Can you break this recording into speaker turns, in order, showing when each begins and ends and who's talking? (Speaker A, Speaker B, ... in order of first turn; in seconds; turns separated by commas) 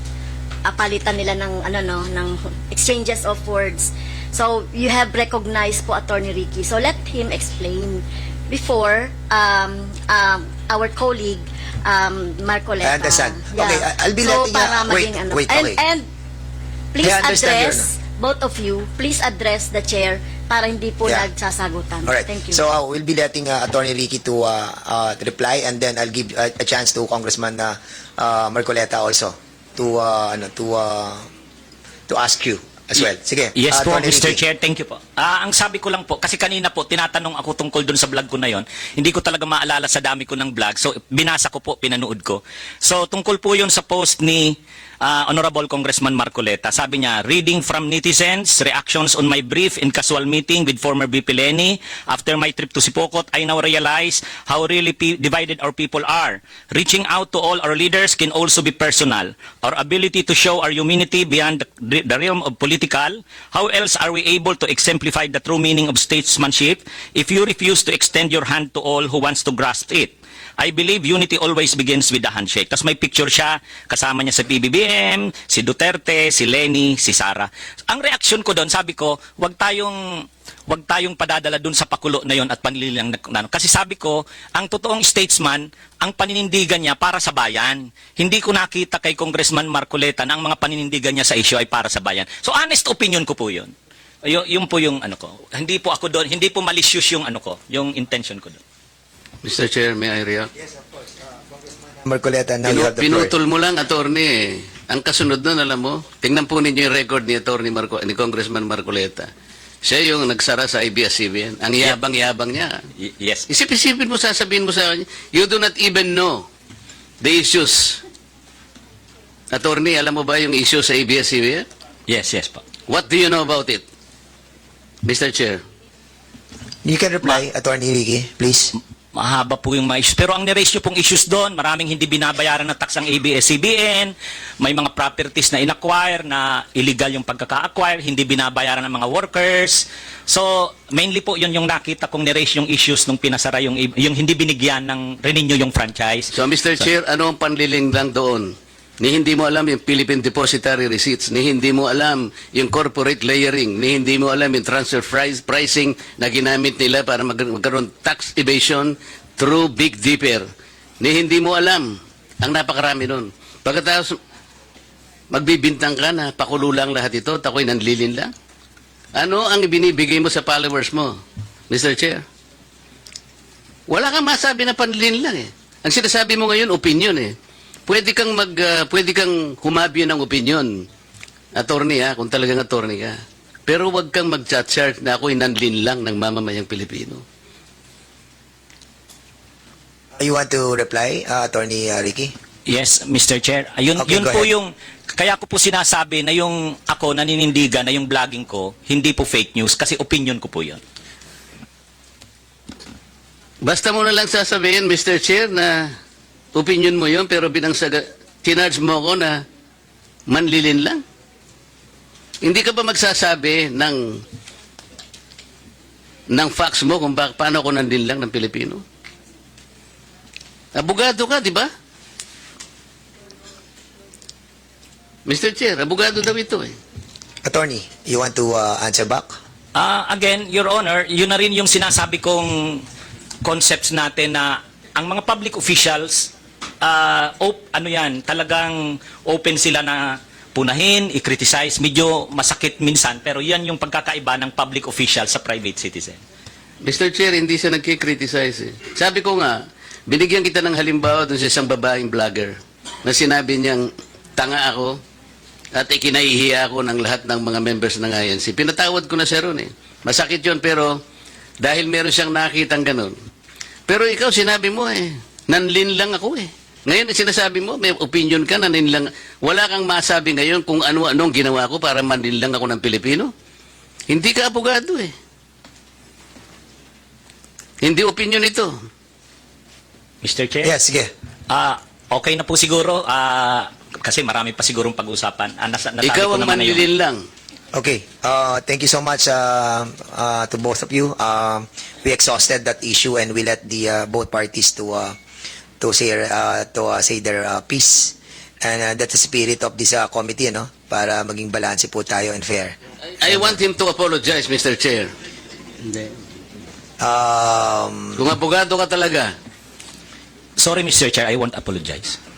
Speaker A: 0.6-16.1, Speaker B: 12.8-15.8, Speaker A: 16.9-22.6, Speaker B: 17.0-17.9, Speaker B: 22.0-31.2, Speaker B: 32.1-34.4, Speaker C: 33.5-80.0, Speaker C: 80.7-93.7, Speaker C: 94.2-98.6, Speaker D: 99.4-100.5, Speaker B: 102.0-103.3, Speaker D: 102.6-109.3, Speaker D: 109.8-112.8, Speaker C: 113.0-113.5, Speaker D: 113.5-116.4, Speaker D: 117.2-118.0, Speaker D: 119.5-121.7, Speaker C: 122.1-122.6, Speaker D: 122.9-123.8, Speaker D: 125.0-125.6, Speaker B: 126.8-128.7, Speaker C: 129.1-146.9, Speaker D: 146.3-160.5, Speaker D: 161.0-164.2, Speaker D: 165.3-168.3, Speaker D: 169.2-171.1, Speaker D: 171.7-172.2, Speaker D: 173.9-177.3, Speaker D: 177.9-180.7, Speaker D: 181.5-187.2, Speaker B: 190.2-192.3, Speaker C: 192.7-200.8, Speaker B: 194.0-194.5, Speaker D: 203.6-205.9, Speaker D: 206.5-209.4, Speaker D: 210.3-211.0, Speaker D: 212.4-214.2, Speaker D: 216.3-218.8, Speaker D: 220.7-221.7, Speaker D: 225.3-226.8, Speaker B: 227.4-229.3, Speaker C: 229.7-232.8, Speaker C: 233.4-246.2, Speaker D: 246.8-255.0, Speaker D: 255.7-261.0, Speaker D: 261.6-263.2, Speaker D: 263.9-273.3, Speaker D: 274.1-275.1, Speaker D: 277.8-278.7, Speaker C: 280.2-280.7, Speaker B: 280.6-281.1, Speaker C: 281.5-286.9, Speaker D: 286.0-287.2, Speaker B: 287.7-295.1, Speaker B: 295.8-302.7, Speaker D: 303.2-305.1, Speaker B: 303.2-303.6, Speaker D: 305.9-306.1, Speaker B: 307.0-308.2, Speaker D: 308.1-309.3, Speaker C: 310.6-312.2